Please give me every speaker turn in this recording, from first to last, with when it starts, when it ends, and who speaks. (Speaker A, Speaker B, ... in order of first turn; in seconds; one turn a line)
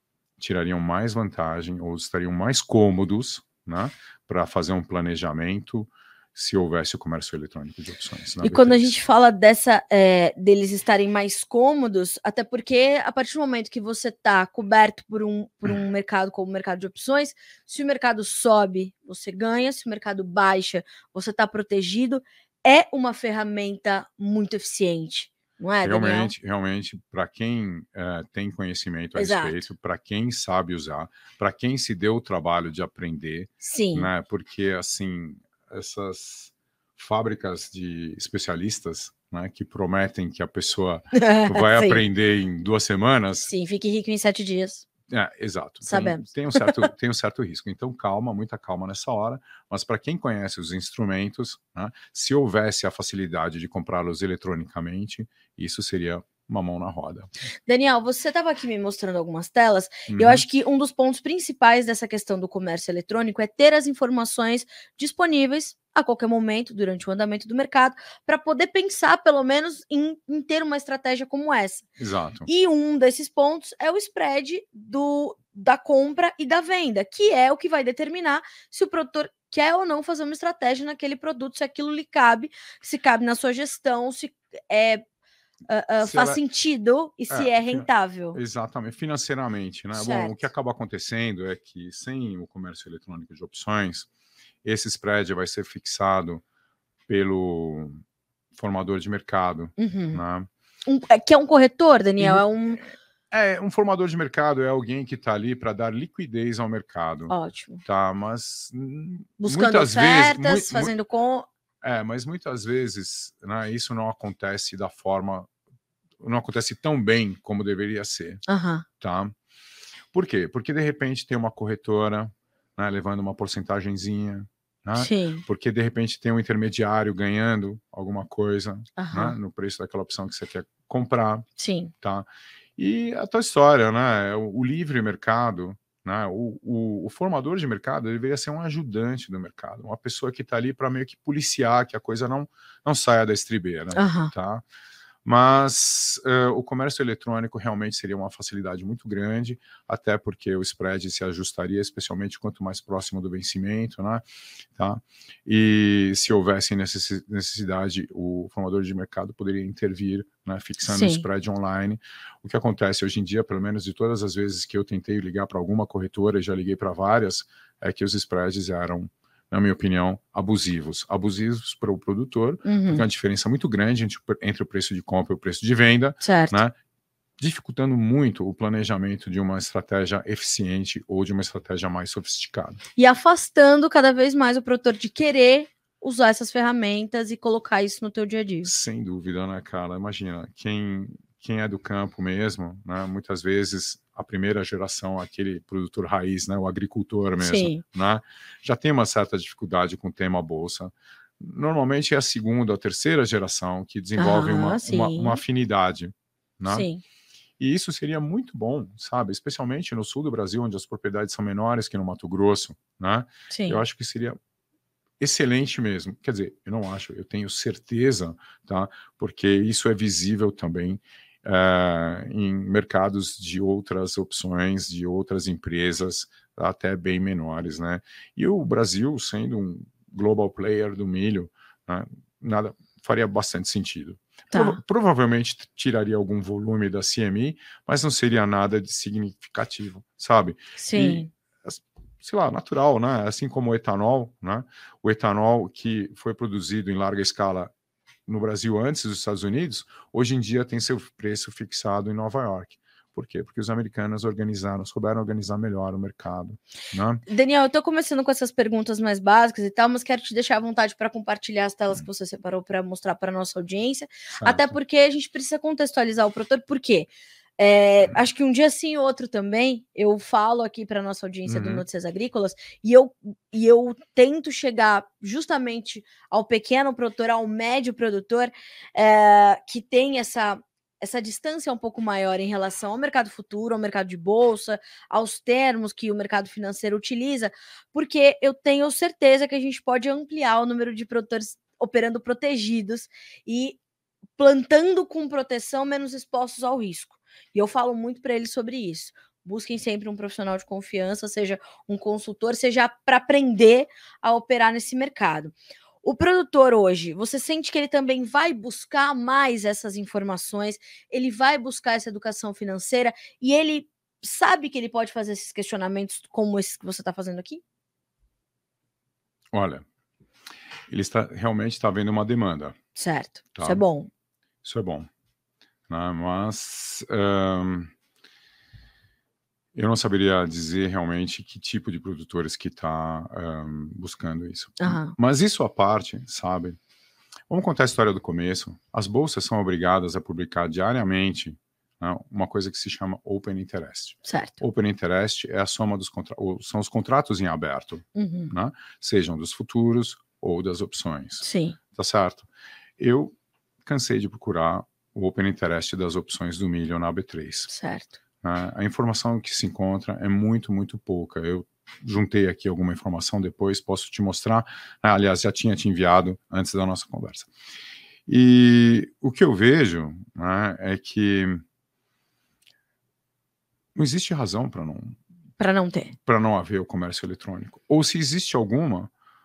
Speaker A: 0.4-8.9
Speaker B: 8.4-26.3
Speaker A: 25.8-43.5
Speaker B: 29.1-29.6
Speaker B: 33.6-34.1
Speaker B: 41.1-42.0
Speaker B: 43.5-44.8
Speaker A: 45.1-57.3
Speaker B: 45.9-46.8
Speaker B: 57.7-71.9
Speaker A: 60.1-60.4
Speaker A: 72.0-72.5
Speaker B: 72.5-85.0
Speaker B: 85.7-88.4
Speaker A: 86.0-86.4
Speaker A: 87.3-94.1
Speaker B: 89.9-90.4
Speaker A: 94.6-96.4
Speaker A: 97.1-98.0
Speaker A: 98.6-100.5
Speaker B: 99.8-100.2
Speaker B: 100.8-102.8
Speaker A: 102.2-110.9
Speaker B: 107.3-107.8
Speaker B: 109.4-111.5
Speaker A: 111.8-115.5
Speaker A: 116.2-118.4
Speaker B: 118.5-118.8
Speaker A: 119.0-119.3
Speaker A: 120.1-131.4
Speaker B: 124.9-125.4
Speaker B: 129.0-129.3
Speaker B: 131.6-131.9
Speaker A: 132.0-144.6
Speaker B: 143.9-144.3
Speaker A: 145.2-176.8
Speaker B: 160.8-161.2
Speaker B: 172.6-173.0
Speaker B: 176.2-176.6
Speaker A: 177.4-182.8
Speaker B: 183.0-188.7
Speaker A: 188.6-206.9
Speaker B: 197.4-197.8
Speaker B: 204.2-205.4
Speaker B: 206.7-207.0
Speaker A: 207.6-214.4
Speaker B: 213.5-213.8
Speaker A: 215.2-247.7
Speaker B: 234.5-234.8
Speaker B: 240.8-241.3
Speaker A: 248.3-257.2
Speaker B: 257.3-293.8
Speaker A: 264.3-264.8
Speaker A: 271.5-271.8
Speaker B: 294.4-317.6
Speaker A: 319.5-319.9
Speaker A: 320.9-322.8
Speaker B: 322.9-324.1
Speaker A: 323.6-323.8
Speaker A: 324.6-325.1
Speaker A: 325.9-327.9
Speaker A: 329.7-336.8
Speaker B: 334.8-335.1
Speaker A: 337.5-352.5
Speaker B: 344.2-344.6
Speaker B: 348.1-348.5
Speaker B: 351.4-351.8
Speaker A: 353.0-353.3
Speaker A: 353.8-357.7
Speaker B: 357.7-358.2
Speaker A: 358.4-367.5
Speaker A: 368.3-371.6
Speaker A: 373.9-375.2
Speaker B: 375.6-376.1
Speaker A: 376.2-379.1